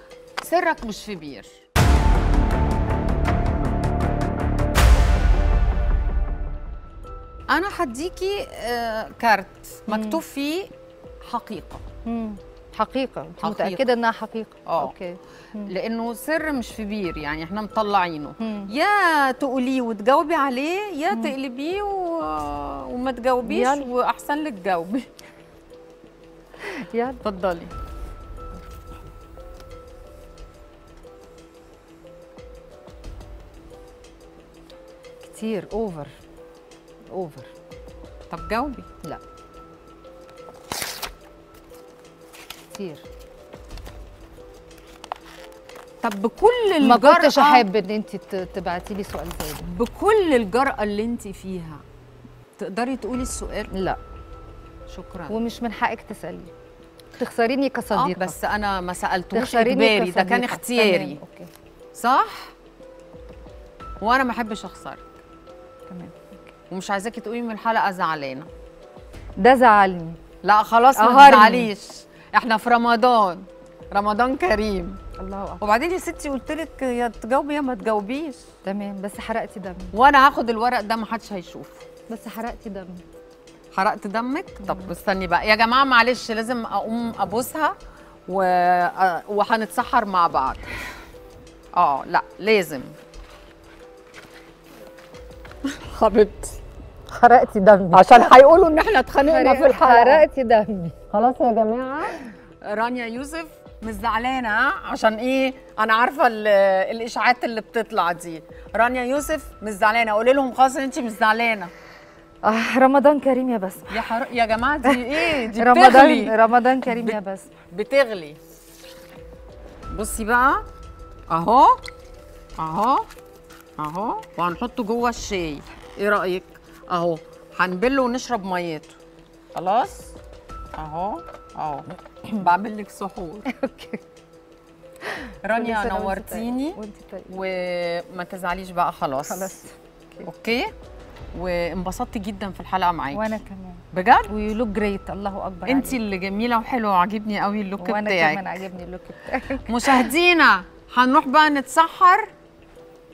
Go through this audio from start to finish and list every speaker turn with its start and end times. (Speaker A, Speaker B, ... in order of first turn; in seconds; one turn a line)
Speaker A: 0.4-1.6
Speaker A: 7.5-11.8
Speaker B: 9.9-10.2
Speaker B: 12.1-15.7
Speaker A: 13.4-13.8
Speaker A: 14.7-14.9
Speaker A: 15.6-25.1
Speaker B: 18.4-18.7
Speaker B: 23.4-23.9
Speaker B: 26.6-27.2
Speaker A: 27.2-27.7
Speaker B: 35.2-36.2
Speaker B: 37.1-37.5
Speaker A: 38.3-38.9
Speaker B: 42.7-43.0
Speaker A: 46.0-47.6
Speaker B: 46.8-49.7
Speaker A: 49.6-51.8
Speaker A: 52.6-53.7
Speaker B: 53.7-54.0
Speaker A: 54.9-55.4
Speaker B: 55.3-56.5
Speaker B: 57.2-58.4
Speaker A: 57.9-61.2
Speaker B: 59.3-61.5
Speaker A: 62.0-62.5
Speaker A: 64.0-65.0
Speaker B: 65.9-66.5
Speaker A: 66.7-68.5
Speaker B: 69.4-70.2
Speaker A: 70.4-75.0
Speaker B: 71.0-71.7
Speaker B: 75.2-75.6
Speaker A: 75.6-78.4
Speaker B: 78.7-79.9
Speaker A: 79.9-81.8
Speaker B: 82.1-83.0
Speaker A: 83.7-87.8
Speaker B: 84.6-84.9
Speaker A: 88.3-90.7
Speaker A: 91.8-92.9
Speaker A: 95.7-96.6
Speaker B: 97.1-98.1
Speaker A: 97.9-100.3
Speaker B: 99.2-101.0
Speaker A: 101.1-111.7
Speaker B: 112.4-114.0
Speaker A: 113.9-118.4
Speaker B: 114.8-117.5
Speaker A: 119.9-120.7
Speaker A: 121.3-121.8
Speaker A: 122.6-123.1
Speaker A: 123.8-129.0
Speaker A: 129.5-130.1
Speaker A: 130.7-133.5
Speaker B: 133.5-134.0
Speaker B: 135.0-137.4
Speaker A: 135.4-139.5
Speaker B: 139.3-140.3
Speaker A: 140.2-140.7
Speaker A: 141.3-143.3
Speaker B: 143.1-146.0
Speaker A: 143.9-144.3
Speaker A: 145.7-148.6
Speaker B: 147.8-150.1
Speaker A: 149.7-152.3